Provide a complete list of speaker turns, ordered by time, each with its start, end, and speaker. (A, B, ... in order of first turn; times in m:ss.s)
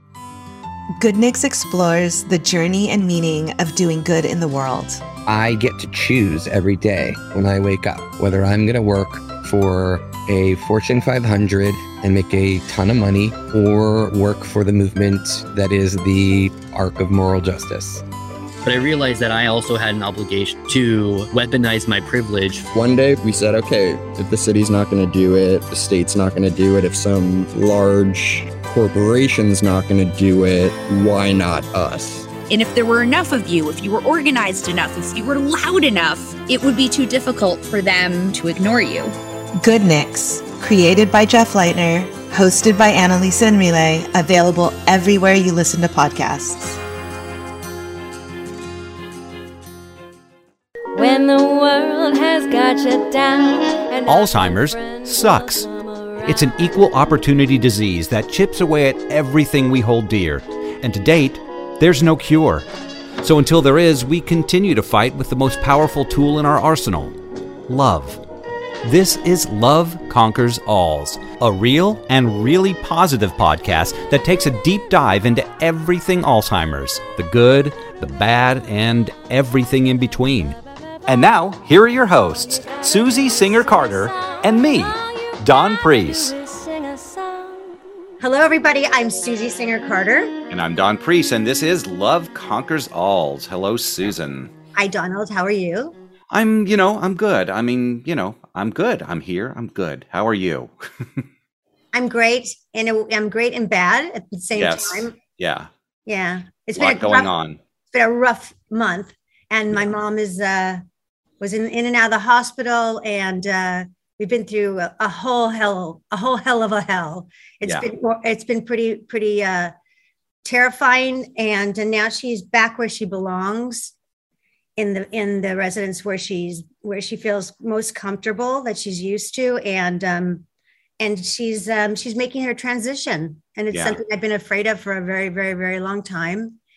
0:01.0-0:05.0 A
0:05.2-0:18.0 B
0:18.6-0:22.7 C
0:22.7-0:32.3 D
0:32.5-0:39.2 E
0:39.6-0:46.8 A
0:51.0-0:57.0 F
0:54.0-0:55.7 G
0:56.2-1:02.6 G
1:03.2-1:07.2 G
1:07.7-1:08.2 G
1:08.8-1:26.4 G
1:22.2-1:27.8 F
1:28.2-1:30.3 H
1:30.5-1:34.5 G
1:34.8-1:35.9 H
1:36.3-1:41.2 G
1:41.9-1:45.1 H
1:44.6-1:45.7 G
1:46.1-1:47.3 H
1:46.8-1:47.6 G
1:47.9-1:50.8 H
1:51.4-1:59.7 H
2:00.4-2:03.9 H
2:04.8-2:10.4 H
2:11.0-2:16.6 H
2:13.7-2:14.0 G